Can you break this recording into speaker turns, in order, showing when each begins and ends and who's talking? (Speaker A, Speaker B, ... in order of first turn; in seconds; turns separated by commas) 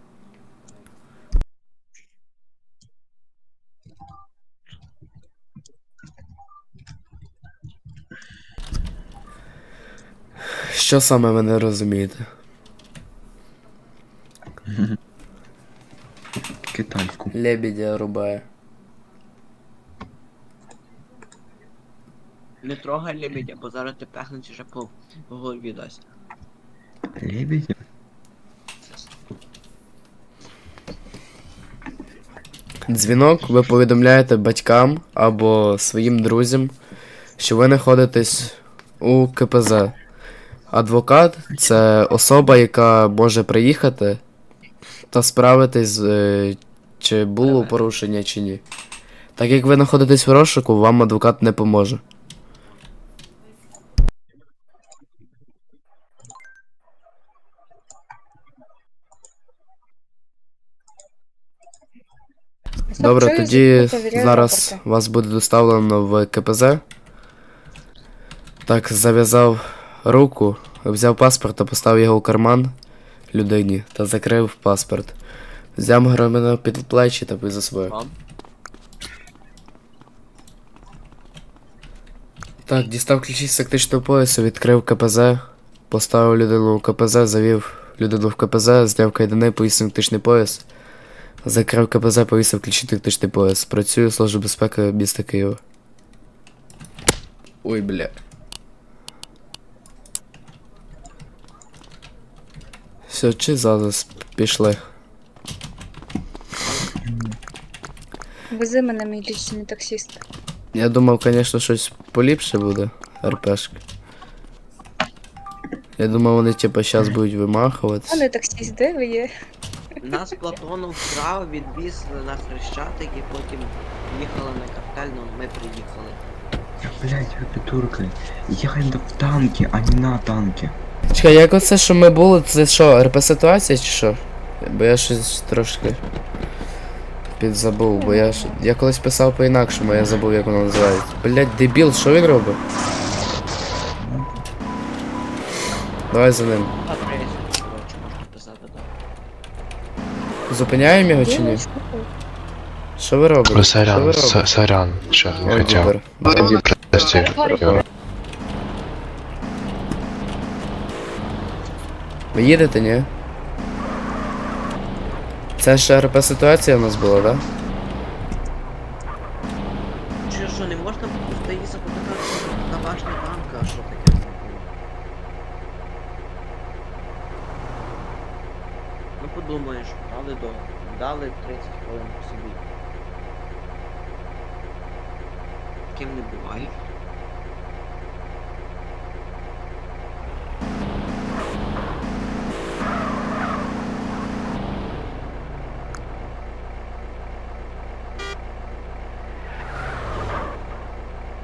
Speaker A: 10.5-12.3, Speaker B: 14.7-15.0, Speaker B: 16.7-17.3, Speaker A: 17.3-18.5, Speaker C: 22.6-26.0, Speaker B: 27.2-27.8, Speaker A: 32.9-36.7, Speaker A: 37.4-40.0, Speaker A: 40.7-44.2, Speaker A: 45.1-48.6, Speaker A: 49.4-52.0, Speaker D: 62.9-64.8, Speaker A: 63.0-66.8, Speaker A: 68.7-72.8, Speaker A: 73.3-75.2, Speaker A: 75.8-78.0, Speaker C: 77.9-78.1, Speaker A: 82.6-90.6, Speaker A: 91.4-95.6, Speaker A: 97.6-98.1, Speaker A: 103.1-104.9, Speaker B: 107.0-107.3, Speaker D: 108.5-110.2, Speaker A: 110.7-113.8, Speaker A: 116.0-118.2, Speaker D: 118.1-119.3, Speaker C: 120.0-126.2, Speaker B: 126.8-130.7, Speaker A: 131.1-136.0, Speaker A: 137.3-142.6, Speaker D: 138.0-138.5, Speaker B: 144.0-144.3, Speaker A: 146.1-146.7, Speaker C: 146.8-148.9, Speaker A: 150.5-151.6, Speaker D: 151.2-152.1, Speaker A: 153.0-154.5, Speaker E: 153.5-157.8, Speaker A: 155.4-156.7, Speaker A: 157.4-157.8, Speaker A: 162.3-163.1, Speaker A: 165.6-167.4, Speaker C: 170.3-174.7, Speaker C: 179.2-182.6, Speaker C: 185.9-186.8